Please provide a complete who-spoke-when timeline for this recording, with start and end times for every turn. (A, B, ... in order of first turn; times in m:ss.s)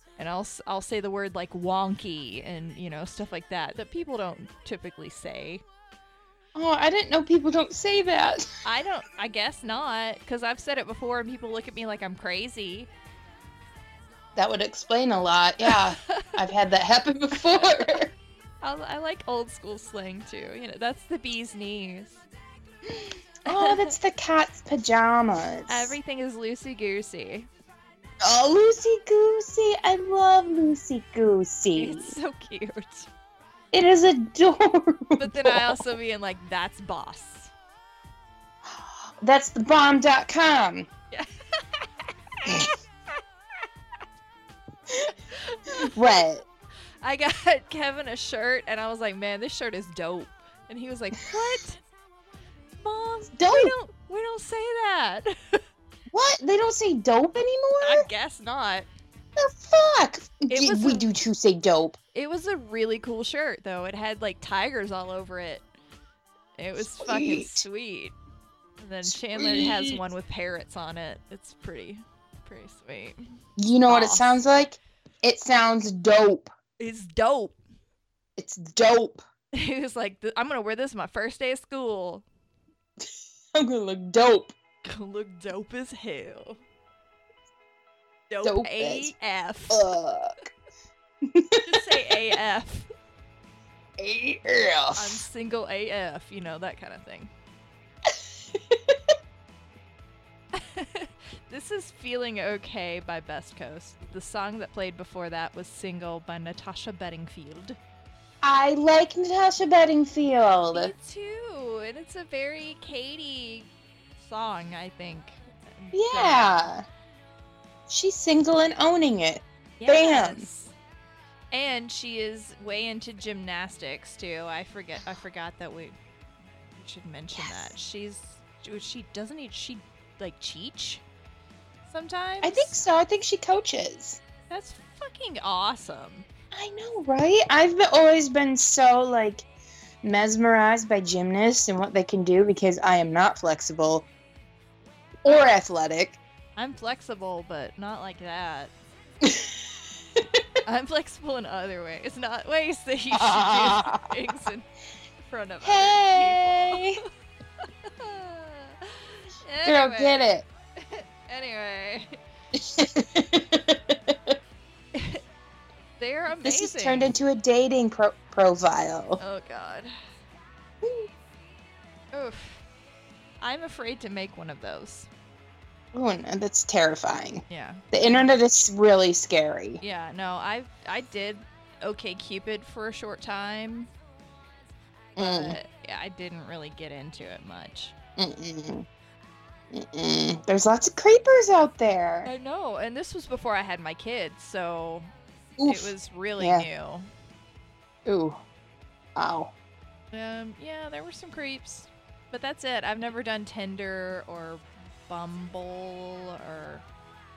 0:00.2-0:05.6 A
0:06.5-0:08.5 B
0:08.6-0:12.9 A
0:14.4-0:18.1 B
0:15.6-0:16.4 A
0:17.4-0:17.9 A
0:18.6-0:22.2 A
0:23.4-0:23.9 A
0:23.4-0:26.0 B
0:25.7-0:27.5 A
0:28.2-0:32.1 B
0:31.8-0:33.1 A
0:33.7-0:35.8 B
0:35.2-0:37.5 A
0:39.2-0:40.9 B
0:41.1-0:41.9 A
0:42.4-0:42.7 A
0:42.4-0:42.7 B
0:45.3-0:46.0 A
0:45.8-0:46.4 B
0:47.0-0:51.8 A
0:52.8-0:55.6 A
0:53.4-0:53.7 B
0:56.1-0:58.1 B
0:57.8-0:58.9 A
0:59.4-1:02.0 B
1:00.5-1:01.1 A
1:02.1-1:05.6 A
1:06.6-1:08.1 A
1:06.8-1:07.6 B
1:08.8-1:13.2 A
1:09.0-1:10.0 B
1:13.6-1:16.5 B
1:13.9-1:14.4 A
1:16.8-1:17.6 A
1:18.4-1:19.2 B
1:19.5-1:22.2 A
1:23.5-1:24.5 B
1:24.8-1:26.6 A
1:28.3-1:29.8 A
1:28.4-1:29.1 B
1:29.7-1:30.3 B
1:31.2-1:32.0 B
1:31.6-1:32.9 A
1:34.0-1:35.2 B
1:34.9-1:37.3 A
1:38.1-1:39.0 B
1:40.5-1:47.8 A
1:48.4-1:50.9 B
1:50.7-1:56.6 A
1:55.9-1:56.8 B
1:57.9-2:00.4 B
1:59.8-2:00.7 A
2:01.5-2:05.9 A
2:06.8-2:11.0 A
2:11.9-2:12.8 A
2:12.4-2:14.2 B
2:14.5-2:16.3 A
2:16.5-2:19.4 B
2:20.0-2:24.0 B
2:25.2-2:26.2 B
2:26.6-2:28.7 A
2:29.2-2:29.6 B
2:30.2-2:30.4 B
2:30.6-2:34.7 A
2:33.1-2:34.1 B
2:35.2-2:37.0 A
2:35.6-2:37.0 B
2:37.6-2:42.2 A
2:39.6-2:40.4 B
2:42.5-2:44.4 B
2:44.9-2:45.2 A
2:46.0-2:47.1 A
2:46.4-2:49.2 B
2:49.2-2:49.9 A
2:52.1-2:52.6 A
2:53.4-2:55.1 A
2:55.9-2:59.8 B
2:57.5-2:58.3 A
2:59.8-3:03.9 A
3:05.2-3:07.9 A
3:05.2-3:05.6 B
3:08.2-3:08.9 B
3:09.7-3:12.3 B
3:12.2-3:15.1 A
3:15.6-3:16.6 B
3:15.6-3:17.1 A
3:18.0-3:18.4 B
3:19.2-3:19.5 B
3:20.1-3:26.8 A